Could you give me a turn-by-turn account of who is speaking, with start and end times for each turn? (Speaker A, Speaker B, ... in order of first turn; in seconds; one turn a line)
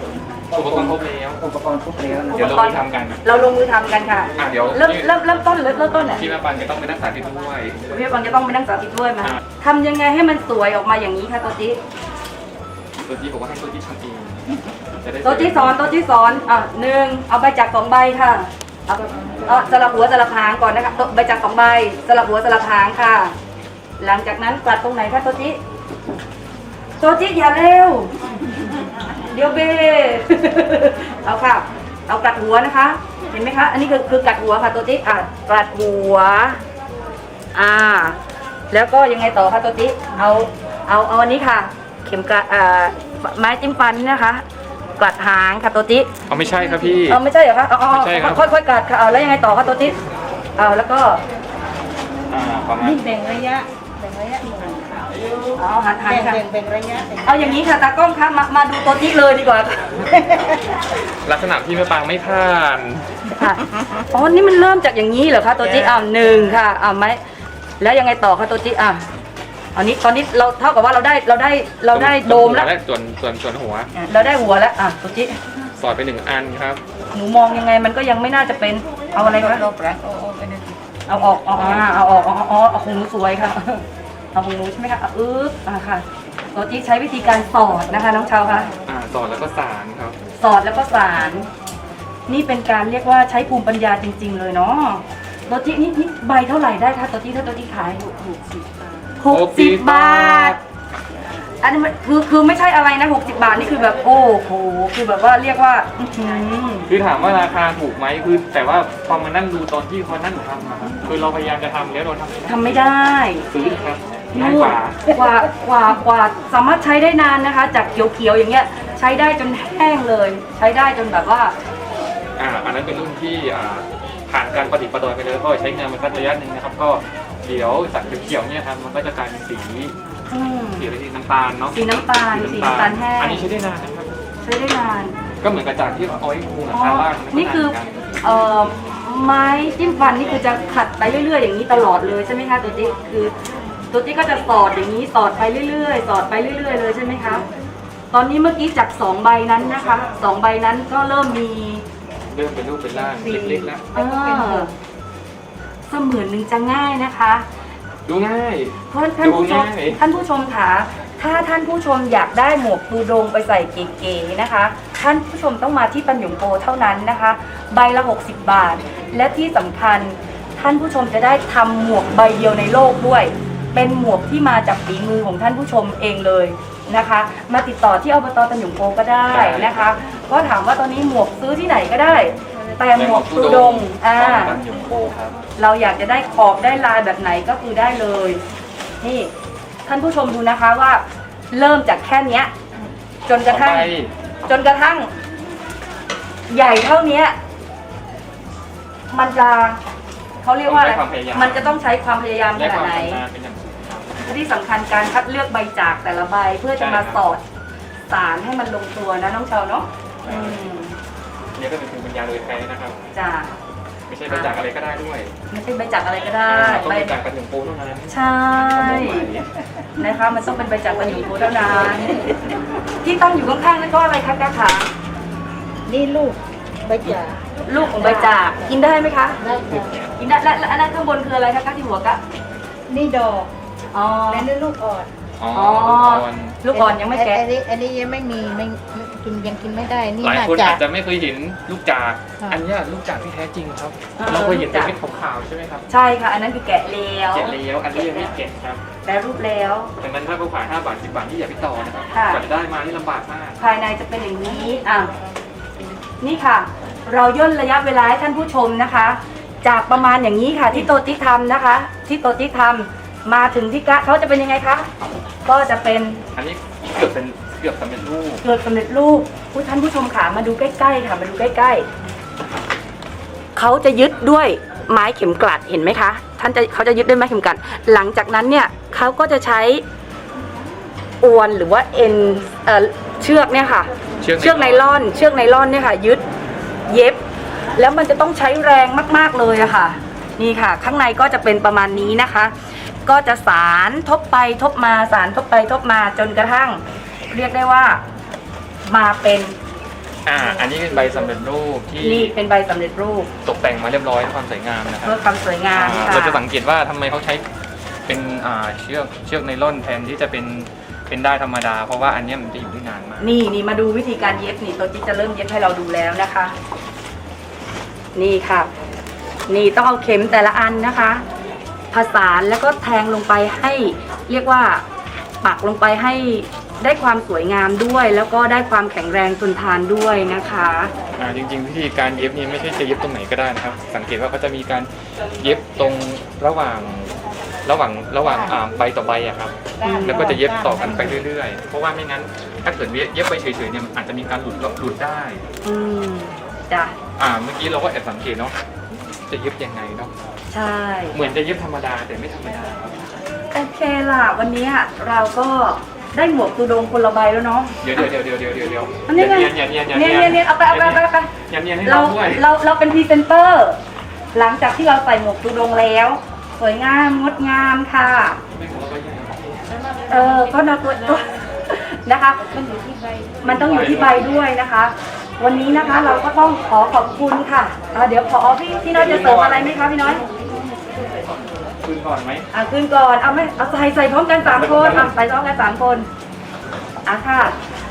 Speaker A: 0.5-1.4
Speaker B: 0.6-2.7
Speaker A: 2.3-3.2
Speaker C: 2.3-6.2
Speaker A: 4.4-5.1
Speaker A: 6.1-7.8
Speaker C: 7.9-11.8
Speaker A: 13.0-15.9
Speaker C: 15.2-23.3
Speaker C: 24.0-25.6
Speaker C: 27.0-28.1
Speaker C: 29.2-36.6
Speaker C: 37.5-38.2
Speaker C: 38.7-44.4
Speaker C: 45.0-46.1
Speaker A: 46.3-47.2
Speaker C: 47.1-50.0
Speaker A: 47.9-48.5
Speaker C: 50.6-51.2
Speaker A: 52.3-53.0
Speaker D: 52.8-55.3
Speaker C: 55.5-56.4
Speaker D: 56.1-57.6
Speaker C: 57.2-60.0
Speaker D: 60.1-60.5
Speaker A: 61.2-63.1
Speaker C: 63.3-67.2
Speaker C: 67.8-69.1
Speaker C: 69.8-72.7
Speaker A: 71.9-73.9
Speaker C: 73.9-75.4
Speaker A: 75.8-76.8
Speaker C: 77.1-80.1
Speaker D: 79.7-80.8
Speaker C: 81.1-88.7
Speaker A: 81.6-81.9
Speaker A: 88.8-90.2
Speaker C: 90.4-91.5
Speaker C: 92.3-98.4
Speaker C: 99.2-100.6
Speaker A: 99.3-100.6
Speaker C: 101.6-106.9
Speaker A: 106.9-112.8
Speaker C: 112.5-113.5
Speaker A: 113.5-115.1
Speaker C: 114.3-121.5
Speaker A: 122.4-130.0
Speaker C: 130.3-130.9
Speaker A: 130.8-134.2
Speaker C: 131.7-133.4
Speaker C: 134.4-135.2
Speaker A: 135.4-138.0
Speaker C: 136.7-143.3
Speaker C: 143.9-147.4
Speaker C: 148.1-151.8
Speaker A: 152.3-153.8
Speaker D: 153.1-154.7
Speaker C: 153.9-154.7
Speaker C: 155.9-157.4
Speaker A: 158.1-160.0
Speaker C: 158.9-184.6
Speaker A: 179.3-179.9
Speaker A: 182.9-185.4
Speaker C: 185.6-188.4
Speaker C: 189.0-189.3
Speaker C: 189.8-192.5
Speaker C: 193.3-193.9
Speaker A: 193.5-194.1
Speaker C: 194.5-195.1
Speaker C: 196.5-197.4
Speaker C: 199.1-199.8
Speaker C: 200.4-203.2
Speaker A: 200.6-201.8
Speaker A: 202.5-204.3
Speaker C: 204.2-207.4
Speaker A: 206.8-207.2
Speaker C: 208.1-210.9
Speaker A: 210.2-210.6
Speaker A: 211.5-213.0
Speaker C: 213.1-213.6
Speaker A: 214.1-215.3
Speaker C: 214.3-214.5
Speaker C: 215.5-217.1
Speaker A: 216.5-219.5
Speaker C: 218.1-219.2
Speaker C: 220.0-222.2
Speaker C: 223.0-224.9
Speaker D: 225.9-227.4
Speaker C: 227.7-229.4
Speaker D: 228.0-228.3
Speaker D: 229.4-230.0
Speaker C: 230.2-232.2
Speaker D: 232.9-233.5
Speaker C: 233.9-234.5
Speaker D: 234.3-235.1
Speaker A: 235.4-236.6
Speaker C: 235.5-237.4
Speaker D: 236.7-240.8
Speaker A: 240.2-245.9
Speaker C: 244.2-244.9
Speaker C: 245.9-248.3
Speaker A: 247.3-248.8
Speaker C: 249.0-249.9
Speaker A: 250.0-253.6
Speaker C: 252.1-252.4
Speaker C: 253.6-255.1
Speaker C: 256.2-264.9
Speaker C: 265.4-266.2
Speaker A: 266.3-268.4
Speaker C: 268.4-271.9
Speaker C: 273.5-279.8
Speaker C: 281.2-286.2
Speaker A: 284.2-285.0
Speaker C: 286.9-287.2
Speaker C: 287.8-298.0
Speaker C: 298.9-299.5
Speaker A: 300.2-302.3
Speaker C: 302.0-303.3
Speaker A: 303.4-305.2
Speaker C: 305.0-306.4
Speaker A: 305.7-307.4
Speaker A: 308.1-313.4
Speaker C: 313.2-316.5
Speaker C: 318.1-318.7
Speaker C: 319.5-321.2
Speaker C: 321.9-324.8
Speaker C: 325.4-330.9
Speaker A: 331.2-337.1
Speaker A: 337.6-345.4
Speaker D: 338.2-338.5
Speaker D: 339.8-341.2
Speaker C: 339.8-340.4
Speaker C: 345.6-346.9
Speaker A: 347.2-348.6
Speaker A: 349.3-350.1
Speaker C: 350.5-351.2
Speaker A: 351.1-353.1
Speaker C: 353.5-358.1
Speaker A: 357.8-362.4
Speaker C: 359.1-361.3
Speaker C: 361.8-363.8
Speaker C: 364.3-368.4
Speaker A: 368.5-369.8
Speaker C: 370.1-372.7
Speaker C: 373.4-380.2
Speaker A: 373.4-374.4
Speaker A: 378.9-379.8
Speaker A: 381.6-382.5
Speaker C: 382.5-386.1
Speaker A: 384.5-385.1
Speaker C: 387.0-387.6